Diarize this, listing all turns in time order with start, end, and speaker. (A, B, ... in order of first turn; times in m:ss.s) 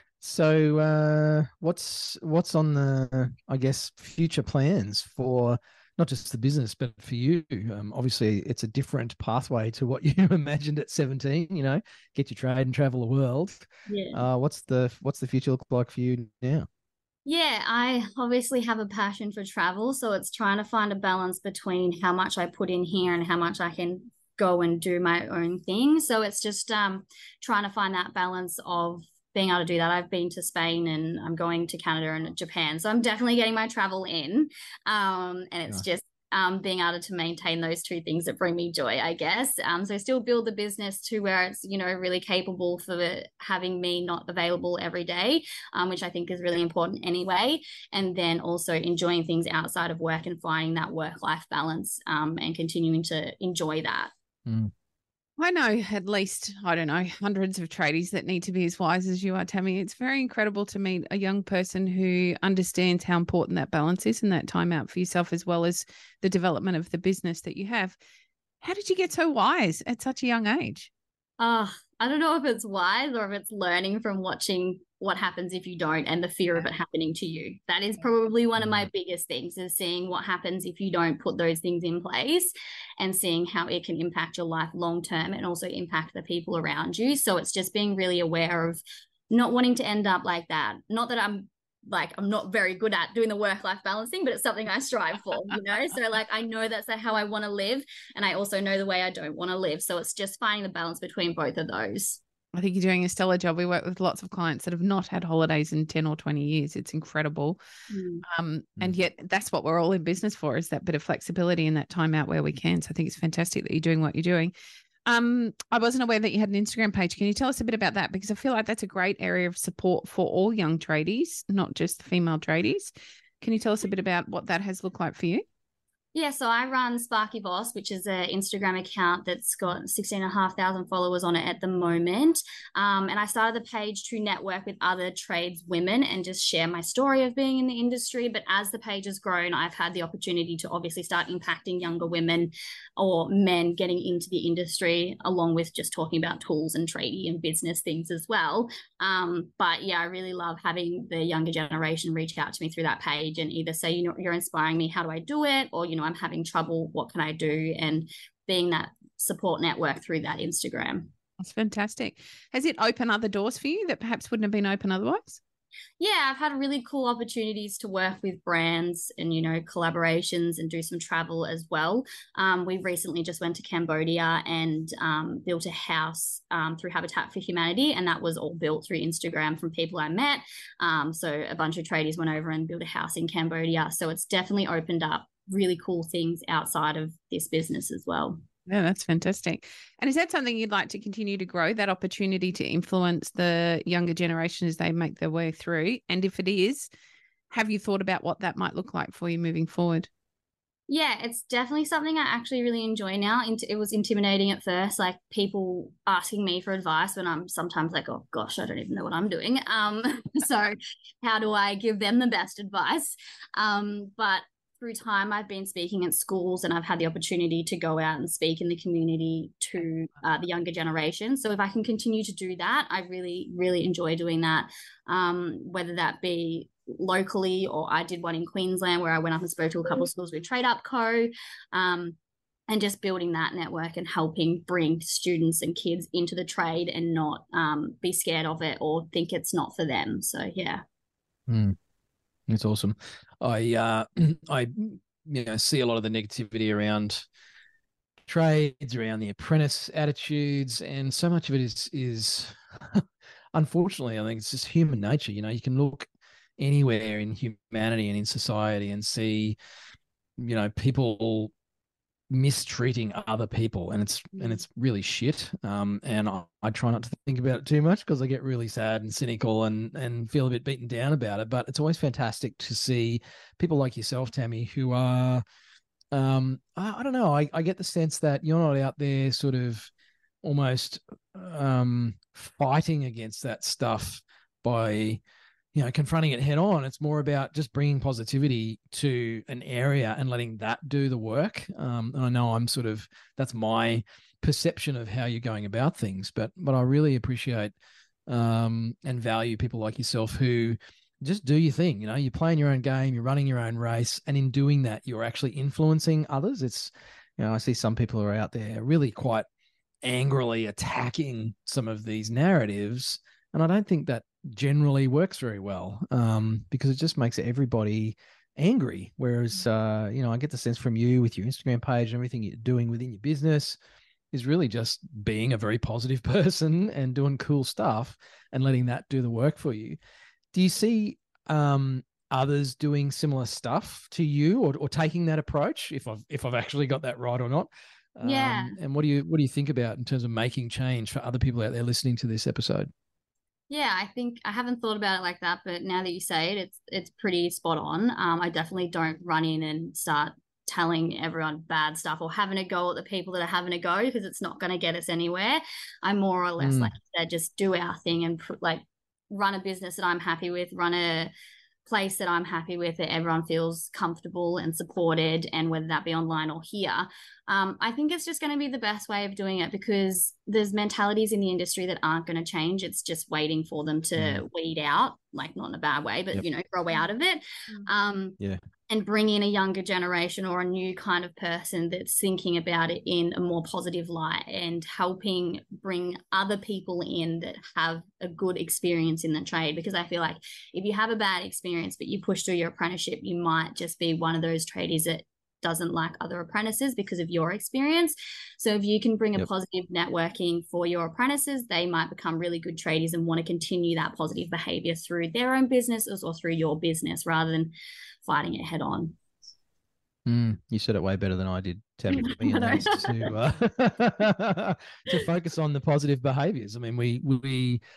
0:00.2-0:16.7 A
0:13.9-0:14.2 B
0:17.2-0:54.1 B
0:54.4-0:54.7 A
0:55.4-1:08.0 C
1:08.6-1:10.9 C
1:11.4-1:42.2 B
1:18.6-1:18.9 A
1:42.5-1:47.6 C
1:47.9-1:48.2 B
1:48.3-1:54.5 C
1:55.1-2:05.4 C
2:06.1-2:41.1 B
2:41.4-2:45.4 C
2:46.0-3:08.4 B
3:08.7-3:16.9 C
3:17.5-3:20.1 C
3:20.9-3:52.2 B
3:52.7-4:00.8 B
4:01.5-4:01.8 A
4:02.5-4:07.2 A
4:08.3-4:19.6 A
4:20.4-4:21.5 A
4:22.3-4:35.4 A
4:36.1-4:39.9 A
4:40.4-4:45.2 A
4:45.7-4:57.7 A
4:58.3-5:09.5 A
5:10.0-5:23.8 A
5:24.3-5:30.0 A
5:30.5-5:42.9 A
5:38.2-5:38.8 B
5:43.7-6:01.3 B
5:56.6-5:56.9 A
6:01.8-6:18.4 B
6:14.2-6:14.4 A
6:18.9-6:47.7 B
6:48.2-6:49.2 B
6:50.2-6:57.8 A
6:52.1-6:53.3 B